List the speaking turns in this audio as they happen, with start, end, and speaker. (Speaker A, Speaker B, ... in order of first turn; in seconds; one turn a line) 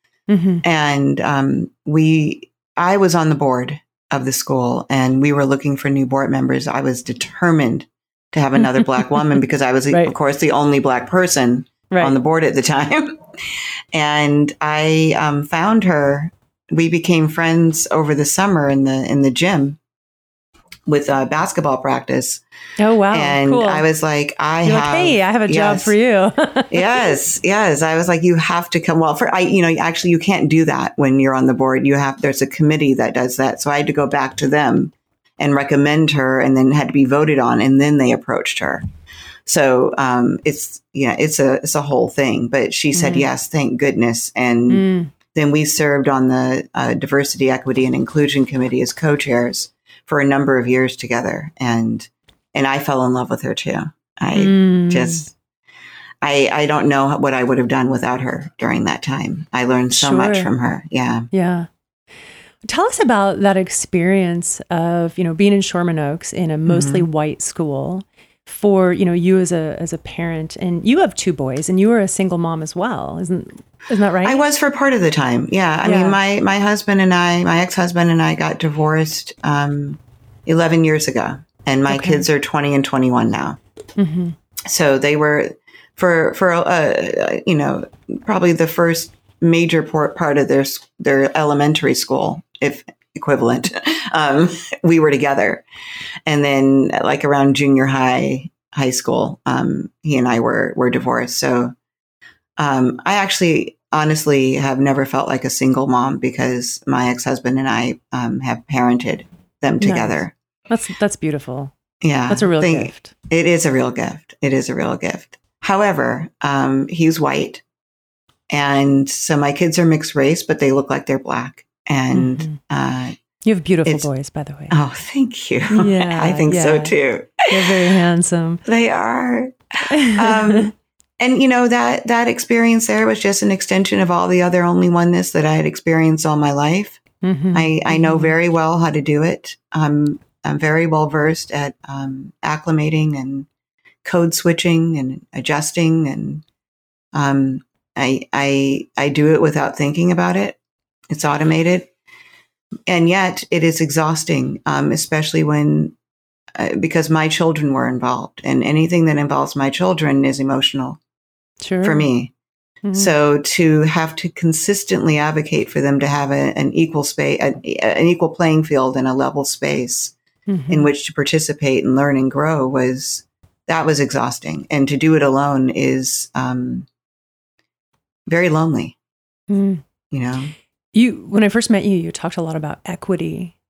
Speaker A: 0.3-0.6
Speaker B: 0.6-13.2
Speaker A: 8.6-9.1
Speaker B: 13.9-19.8
Speaker B: 20.9-22.4
Speaker A: 22.8-23.8
Speaker B: 23.1-25.9
Speaker A: 24.6-27.1
Speaker B: 26.7-38.9
Speaker B: 39.5-55.3
Speaker A: 42.9-43.3
Speaker A: 44.7-45.1
Speaker A: 54.3-55.2
Speaker B: 56.2-61.3
Speaker A: 59.9-60.5
Speaker A: 61.3-61.7
Speaker A: 62.6-74.4
Speaker B: 66.7-67.1
Speaker B: 74.2-83.6
Speaker A: 75.8-76.2
Speaker A: 81.9-82.2
Speaker A: 84.0-84.3
Speaker B: 84.7-95.6
Speaker B: 96.2-101.7
Speaker B: 102.6-110.3
Speaker A: 109.8-111.7
Speaker B: 112.0-117.6
Speaker A: 112.3-113.1
Speaker B: 118.5-123.1
Speaker A: 122.1-122.6
Speaker A: 123.4-124.8
Speaker B: 124.7-127.5
Speaker A: 125.7-128.6
Speaker B: 128.7-137.0
Speaker A: 129.9-130.7
Speaker A: 137.2-138.3
Speaker B: 137.5-143.5
Speaker B: 144.0-146.4
Speaker B: 147.1-150.6
Speaker B: 151.1-151.9
Speaker B: 152.9-155.9
Speaker B: 156.6-161.0
Speaker A: 161.6-162.1
Speaker B: 161.8-162.3
Speaker A: 162.8-163.1
Speaker B: 162.9-170.1
Speaker A: 170.5-170.9
Speaker B: 170.7-176.9
Speaker B: 178.3-178.9
Speaker A: 179.5-179.8
Speaker B: 180.1-180.5
Speaker A: 180.9-183.5